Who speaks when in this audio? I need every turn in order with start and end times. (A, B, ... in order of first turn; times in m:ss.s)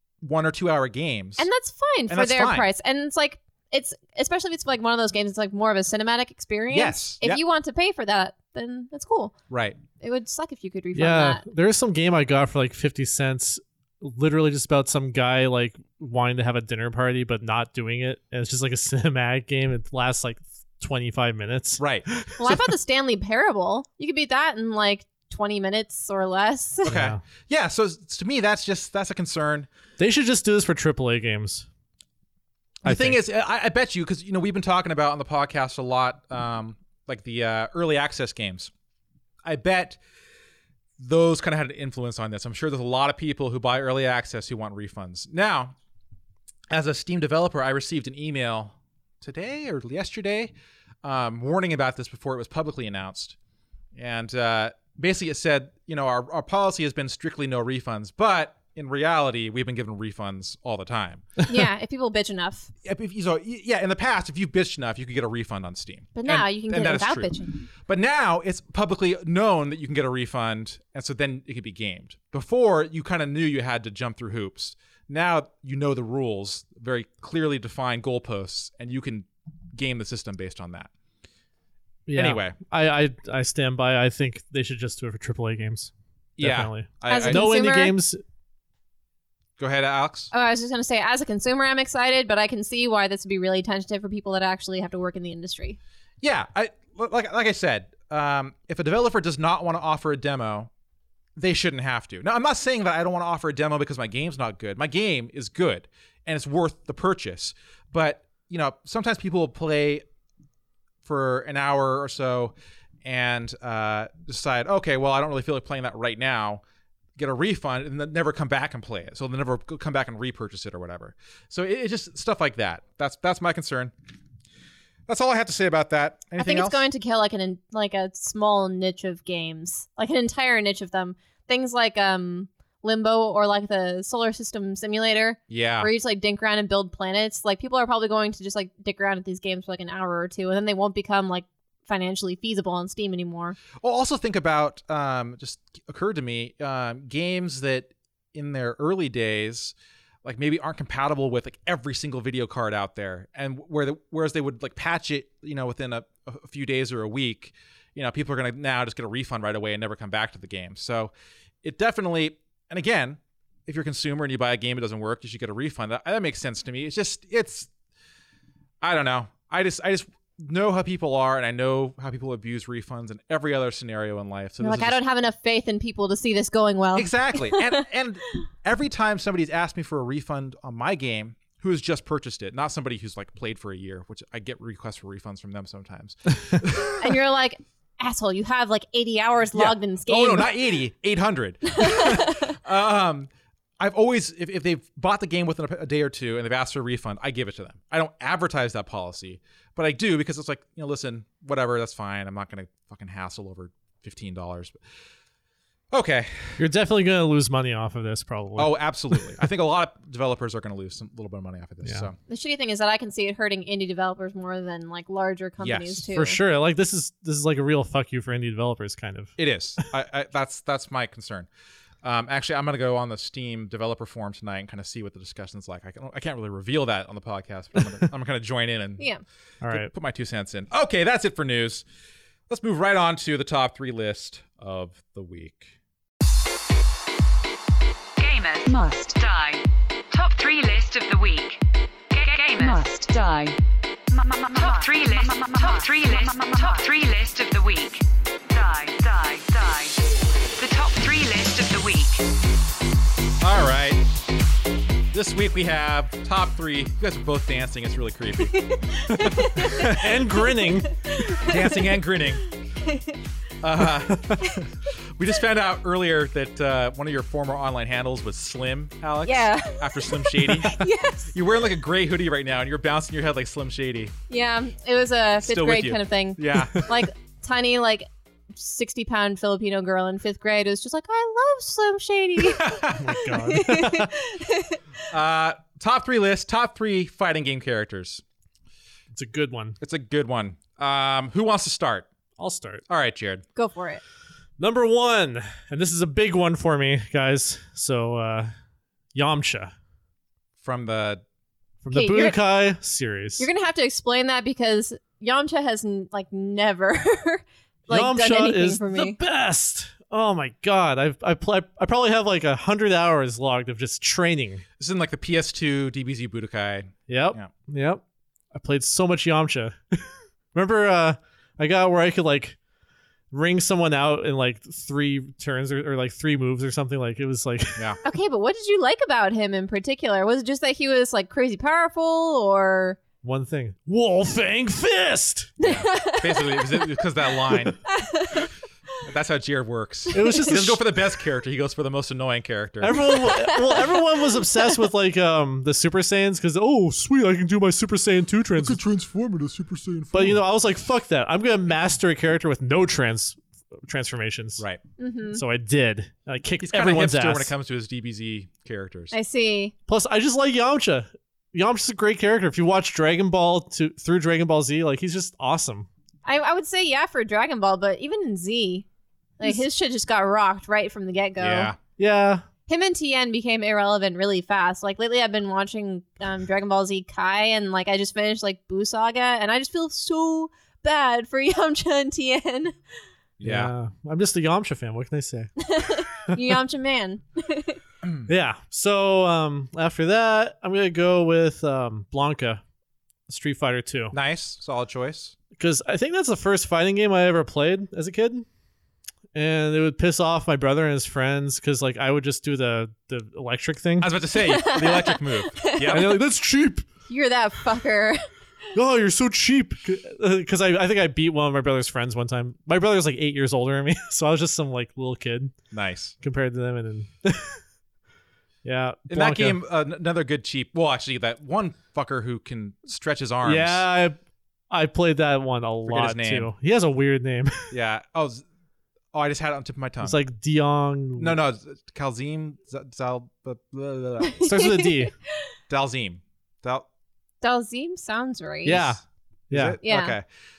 0:00.2-0:01.5 A
0:01.4-0:09.3 B
0:02.1-0:02.7 A
0:06.7-0:07.4 A
0:09.5-0:09.8 A
0:10.0-0:11.4 B
0:11.0-0:22.5 C
0:21.8-0:22.1 A
0:22.4-0:26.9 B
0:26.8-0:27.2 C
0:26.8-0:29.7 A
0:30.0-0:31.7 C
0:32.8-0:38.7 A
0:32.8-0:33.2 C
0:39.4-0:40.0 A
0:41.0-0:45.8 A
0:46.7-0:50.5 A
0:51.0-0:53.4 A
0:54.0-1:01.4 A
1:01.5-1:02.7 B
1:02.8-1:07.3 A
1:06.2-1:07.6 B
1:07.9-1:20.9 A
1:22.1-1:28.2 C
1:22.2-1:22.6 A
1:26.4-1:27.4 A
1:27.1-1:27.9 B
1:29.6-1:30.3 A
1:30.3-1:35.8 B
1:36.2-1:40.7 A
1:41.4-1:50.0 A
1:51.0-1:56.6 A
1:57.2-2:03.9 A
2:05.1-2:06.8 A
2:06.4-2:23.6 B
2:15.5-2:15.9 A
2:23.8-2:41.1 A
2:41.6-2:47.7 A
2:48.8-2:55.0 A
2:54.6-2:57.8 B
2:57.0-3:07.1 A
3:07.0-3:10.5 B
3:09.6-3:24.8 A
3:11.7-3:12.5 B
3:25.9-3:26.6 A
3:26.6-3:29.4 C
3:28.6-3:32.2 A
3:32.3-3:36.4 B
3:35.6-3:36.0 A
3:36.1-3:39.3 C
3:39.4-3:41.5 A
3:42.0-3:49.1 A
3:49.6-3:49.9 C
3:49.7-3:51.8 A
3:52.5-3:55.8 A
3:58.2-4:01.6 D
4:02.1-4:03.6 D
4:04.2-4:12.2 D
4:13.4-4:14.0 A
4:15.1-4:18.6 A
4:18.6-4:19.9 B
4:19.1-4:20.2 A
4:20.0-4:20.9 C
4:21.1-4:21.9 B
4:21.4-4:22.4 A
4:22.8-4:23.2 B
4:23.6-4:24.5 A
4:25.2-4:30.8 A
4:29.2-4:31.3 B
4:31.3-4:34.1 A
4:34.3-4:44.8 B
4:35.4-4:36.8 A
4:36.6-4:36.8 C
4:42.4-4:43.1 A
4:43.0-4:44.1 C
4:45.1-4:48.2 A
4:49.1-4:49.8 C
4:49.8-4:52.1 A
4:52.4-4:52.8 C
4:52.9-4:53.4 A
4:53.6-4:54.0 B
4:54.6-4:58.5 C
4:59.1-4:59.7 C
5:00.6-5:01.2 A
5:01.8-5:03.5 C
5:01.9-5:02.4 B
5:03.4-5:09.2 B
5:07.9-5:14.6 C
5:14.8-5:17.5 A
5:17.1-5:18.0 C
5:18.5-5:22.6 C
5:23.3-5:27.8 C
5:28.0-5:33.0 B
5:33.2-5:35.6 C
5:35.6-5:36.8 B
5:35.6-5:37.8 A
5:37.9-5:38.5 B
5:39.0-5:43.0 A
5:40.1-5:40.8 C
5:40.2-5:40.5 B
5:42.8-5:48.8 C
5:43.2-5:43.8 B
5:48.6-5:50.4 A
5:50.1-5:54.6 C
5:55.0-5:55.4 B
5:55.3-5:57.5 C
5:56.6-5:59.1 A
5:59.1-5:59.7 B
5:59.9-6:05.9 C
6:06.3-6:08.9 B
6:09.4-6:11.7 B
6:11.4-6:11.8 A
6:12.0-6:12.4 C
6:12.7-6:22.7 B
6:23.4-6:23.7 A
6:23.4-6:25.7 C
6:25.6-6:27.8 B
6:28.3-6:32.6 C
6:33.3-6:34.2 C
6:34.1-6:35.4 A
6:35.6-6:38.5 C
6:39.4-6:44.2 C
6:44.0-6:46.2 A
6:44.4-6:46.0 B
6:45.9-6:46.8 C
6:47.1-6:48.2 B
6:48.7-6:55.6 C
6:55.7-6:56.2 A
6:56.2-6:57.6 C
6:58.6-6:59.6 C
6:59.1-7:03.8 A
7:03.4-7:04.2 C
7:04.7-7:07.7 C
7:05.9-7:06.5 A
7:07.7-7:08.4 A
7:09.1-7:10.2 A
7:10.0-7:11.4 C
7:11.2-7:14.4 A
7:14.3-7:15.1 B
7:14.4-7:15.1 C
7:15.7-7:16.9 A
7:17.4-7:18.8 B
7:18.6-7:19.8 C
7:18.7-7:19.0 A
7:19.5-7:20.2 A
7:19.8-7:20.2 B